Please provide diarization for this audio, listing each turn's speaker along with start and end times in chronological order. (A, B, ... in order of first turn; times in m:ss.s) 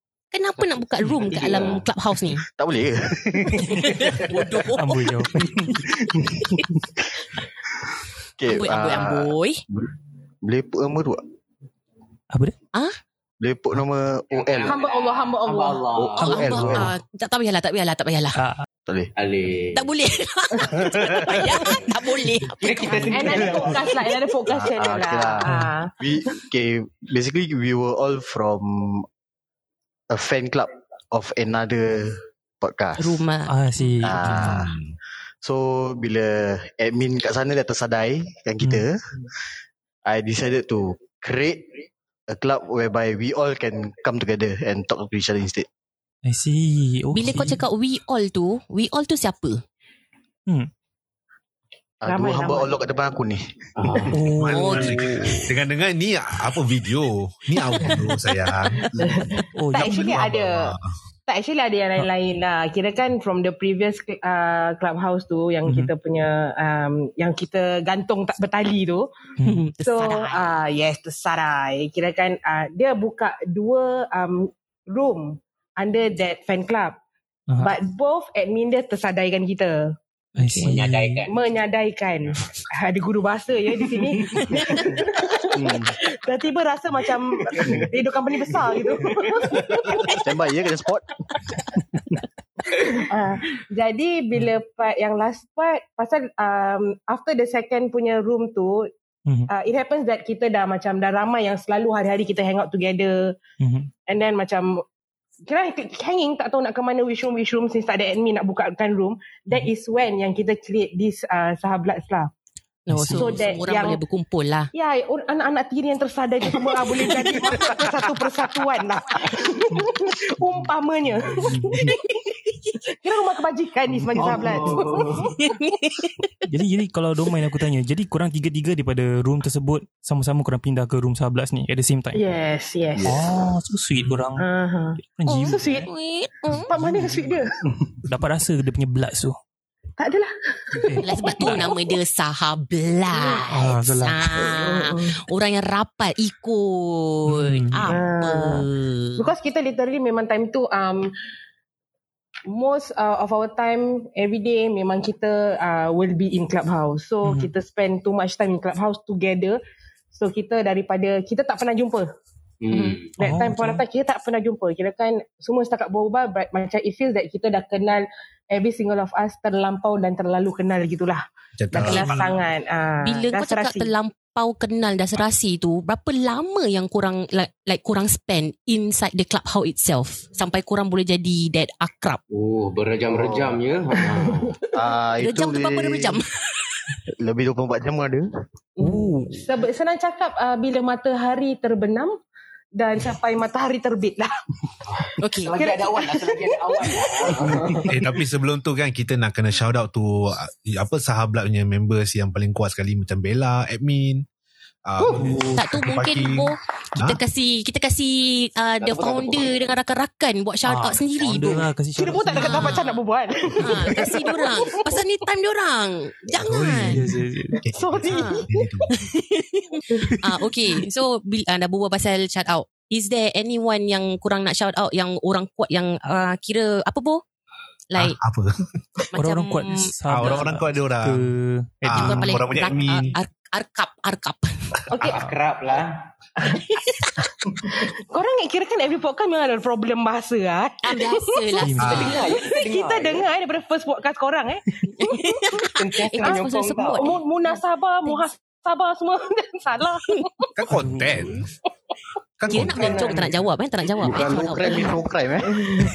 0:00.3-0:02.4 A
0:01.3-0:01.8 B
0:02.5-0:04.2 C
0:03.7-0:05.0 A
0:04.7-0:05.8 D
0:08.4-0:09.9 C
0:08.5-0:09.6 A
0:10.4-0:11.2 C
0:13.4-0:14.8 C
0:14.3-0:16.8 B
0:14.6-0:16.0 E
0:15.9-0:16.9 C
0:16.2-0:18.4 A
0:18.4-0:18.6 D
0:19.2-0:19.9 B
0:19.7-0:23.3 A
0:22.6-0:23.9 B
0:22.9-0:25.9 E
0:24.4-0:29.0 C
0:25.4-0:25.7 D
0:30.1-0:33.2 C
0:33.0-0:33.5 A
0:33.5-0:34.5 D
0:34.0-0:34.8 C
0:34.3-0:34.6 A
0:35.4-0:39.3 C
0:40.0-0:41.7 C
0:42.3-0:45.7 C
0:46.2-0:47.6 D
0:47.1-0:49.6 A
0:52.0-0:54.0 C
0:52.0-0:52.7 E
0:53.8-0:54.2 B
0:54.1-0:55.1 D
0:54.3-1:00.9 F
0:54.5-0:55.5 A
0:57.8-0:58.4 A
0:59.2-1:00.7 E
0:59.5-1:00.0 D
1:01.3-1:09.1 E
1:05.6-1:05.9 D
1:09.4-1:10.4 A
1:09.8-1:17.0 E
1:17.6-1:19.9 E
1:20.4-1:21.2 D
1:20.4-1:20.8 A
1:20.7-1:21.4 B
1:21.3-1:30.2 E
1:24.0-1:25.9 B
1:24.4-1:24.8 A
1:27.4-1:27.9 B
1:28.4-1:29.7 B
1:30.2-1:31.1 C
1:32.9-1:38.9 E
1:39.5-1:43.3 E
1:43.6-1:43.9 D
1:44.1-1:44.8 E
1:45.5-1:52.3 E
1:52.9-1:54.7 A
1:52.9-1:53.4 D
1:53.1-1:54.0 E
1:54.7-2:02.1 E
2:01.4-2:01.9 D
2:02.9-2:05.5 E
2:03.9-2:04.5 D
2:04.1-2:05.3 B
2:05.5-2:06.3 A
2:06.4-2:12.2 D
2:12.1-2:13.2 E
2:13.0-2:13.2 C
2:13.0-2:14.4 D
2:14.4-2:15.9 E
2:15.0-2:15.7 D
2:15.2-2:16.7 A
2:16.7-2:17.5 E
2:16.7-2:17.4 D
2:18.0-2:19.4 D
2:20.0-2:21.8 E
2:20.7-2:21.6 D
2:21.0-2:29.2 A
2:23.1-2:23.4 E
2:23.5-2:24.3 D
2:24.4-2:25.2 E
2:27.3-2:27.9 D
2:27.9-2:28.7 E
2:29.2-2:31.1 E
2:32.5-2:39.6 E
2:37.2-2:37.5 D
2:40.1-2:42.0 E
2:42.6-2:43.2 B
2:42.7-2:43.0 A
2:43.2-2:53.9 E
2:43.2-2:43.8 D
2:51.6-2:52.4 F
2:51.8-2:52.1 A
2:53.0-3:02.2 A
3:02.3-3:04.6 B
3:03.1-3:03.6 C
3:04.7-3:06.2 C
3:05.2-3:06.3 A
3:07.2-3:08.3 C
3:08.8-3:12.1 E
3:08.8-3:09.4 D
3:12.8-3:14.3 E
3:14.9-3:18.1 B
3:15.2-3:15.5 A
3:15.6-3:17.5 E
3:17.8-3:24.2 F
3:24.8-3:27.2 F
3:25.0-3:25.4 B
3:25.1-3:25.5 D
3:25.6-3:31.6 A
3:28.8-3:29.6 B
3:30.6-3:32.7 D
3:31.9-3:34.9 E
3:32.3-3:33.0 A
3:33.6-3:37.0 A
3:36.4-3:37.0 F
3:36.9-3:37.6 D
3:37.6-3:39.0 F
3:37.7-3:38.8 E
3:38.1-3:47.2 A
3:47.9-3:48.2 A
3:47.9-3:48.6 F
3:49.1-3:50.5 A
3:49.1-3:52.5 D
3:50.1-3:51.3 F
3:51.8-3:53.2 F
3:51.9-3:54.7 A
3:54.9-3:56.0 B
3:55.0-3:55.3 E
3:56.7-3:57.1 A
3:57.6-4:01.6 E
4:00.8-4:02.4 A
4:01.6-4:02.2 D
4:01.8-4:02.2 F
4:01.8-4:03.3 B
4:02.2-4:05.6 E
4:04.9-4:07.2 A
4:05.7-4:07.2 B
4:06.2-4:10.5 E
4:10.6-4:11.5 F
4:10.7-4:11.4 D
4:12.4-4:13.1 F
4:12.4-4:14.9 A
4:12.5-4:13.4 B
4:14.0-4:15.8 C